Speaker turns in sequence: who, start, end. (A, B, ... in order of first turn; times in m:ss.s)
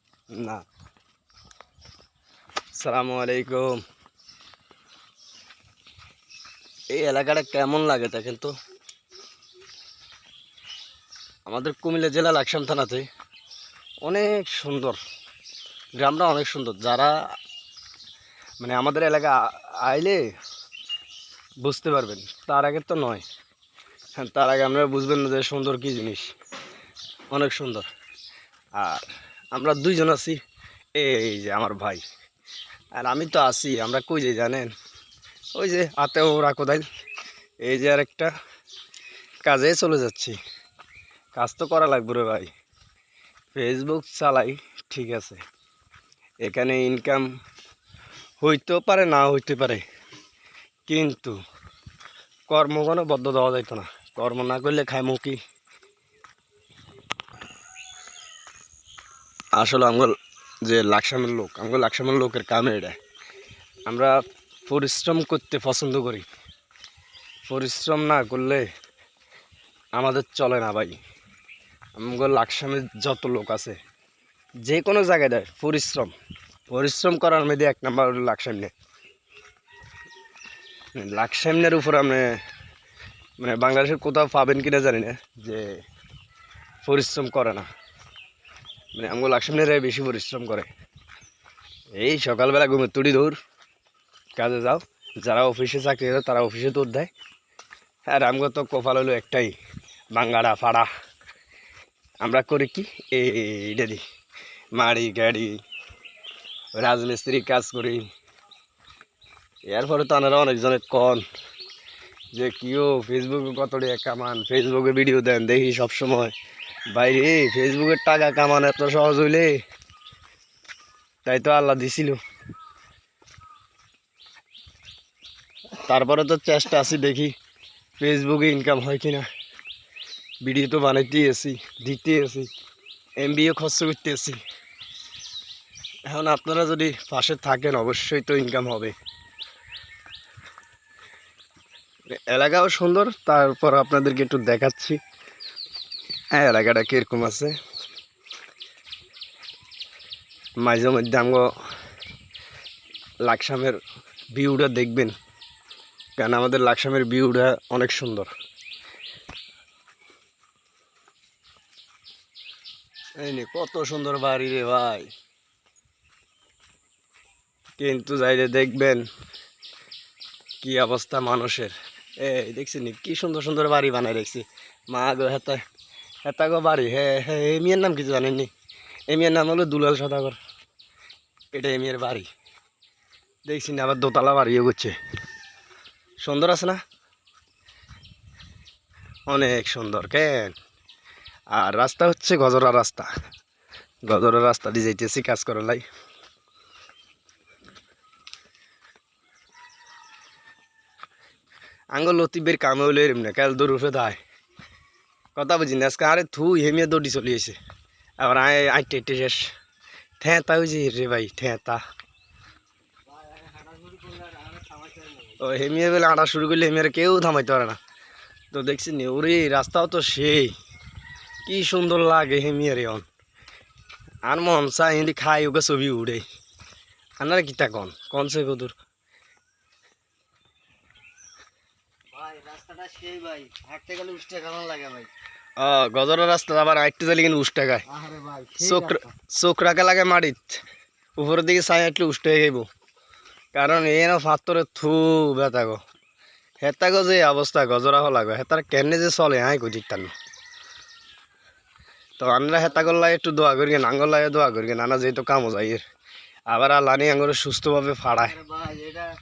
0:00.3-0:00.6 A
0:02.8-0:03.8 A
0:06.9-0:08.5 A
0:11.4-0:13.0 A
0:14.0-0:15.0 A
0:16.0-0:17.1 A
0:18.6-0:20.2 A
0:21.6-0:23.2 A
0:24.2-0:26.3 A
0:27.3-0:27.9 A
0:28.8-0:30.4 A
0:31.0-0:32.0 A
0:33.0-0:34.7 A
0:35.5-0:36.8 A
0:37.6-0:38.3 A
0:39.4-0:40.4 A
0:41.3-0:42.5 A
0:43.5-0:45.4 A
0:46.4-0:47.3 A
0:48.4-0:49.8 A
0:50.9-0:51.4 A
0:52.5-0:55.4 A
0:59.6-1:02.9 A
1:03.9-1:06.2 A
1:07.4-1:08.6 A
1:10.0-1:11.0 A
1:12.0-1:13.8 A
1:14.6-1:16.1 A
1:16.7-1:18.7 A
1:21.0-1:22.4 A
1:23.4-1:25.7 A
1:26.8-1:27.7 A
1:28.9-1:30.7 A
1:32.0-1:33.4 A
1:34.4-1:37.1 A
1:38.1-1:39.5 A
1:40.1-1:40.9 A
1:42.2-1:44.0 A
1:44.7-1:45.6 A
1:46.7-1:48.0 A
1:49.7-1:51.2 A
1:52.3-1:56.3 A
1:56.9-1:59.6 A
2:01.2-2:02.2 A
2:05.8-2:07.3 A
2:08.0-2:09.2 A
2:10.4-2:12.5 A
2:13.2-2:14.4 A
2:16.1-2:18.9 A
2:22.3-2:25.0 A
2:26.3-2:27.5 A
2:30.6-2:31.5 A
2:33.2-2:33.8 A
2:34.3-2:35.1 A
2:36.2-2:38.3 A
2:43.2-2:45.1 A
2:47.8-2:49.0 A
2:50.6-2:55.6 A
2:56.2-2:58.5 A
2:59.1-3:00.4 A
3:01.5-3:02.3 A
3:03.4-3:04.9 A
3:06.2-3:06.8 A
3:09.3-3:10.5 A
3:11.5-3:13.1 A
3:14.1-3:15.8 A
3:21.9-3:24.2 A
3:25.4-3:27.6 A
3:28.2-3:29.5 A
3:30.2-3:31.8 A
3:33.1-3:35.4 B
3:35.4-3:37.8 A
3:38.5-3:40.5 A
3:41.4-3:43.0 A
3:44.2-3:46.2 A
3:47.2-3:48.7 A
3:52.1-3:55.1 B
3:55.6-3:57.8 A
3:57.9-3:59.1 B
3:58.6-4:00.6 A
4:01.2-4:02.6 A
4:03.5-4:05.8 A
4:06.6-4:10.1 A
4:12.2-4:15.8 A
4:12.6-4:13.1 B
4:16.5-4:18.4 A
4:18.2-4:19.1 B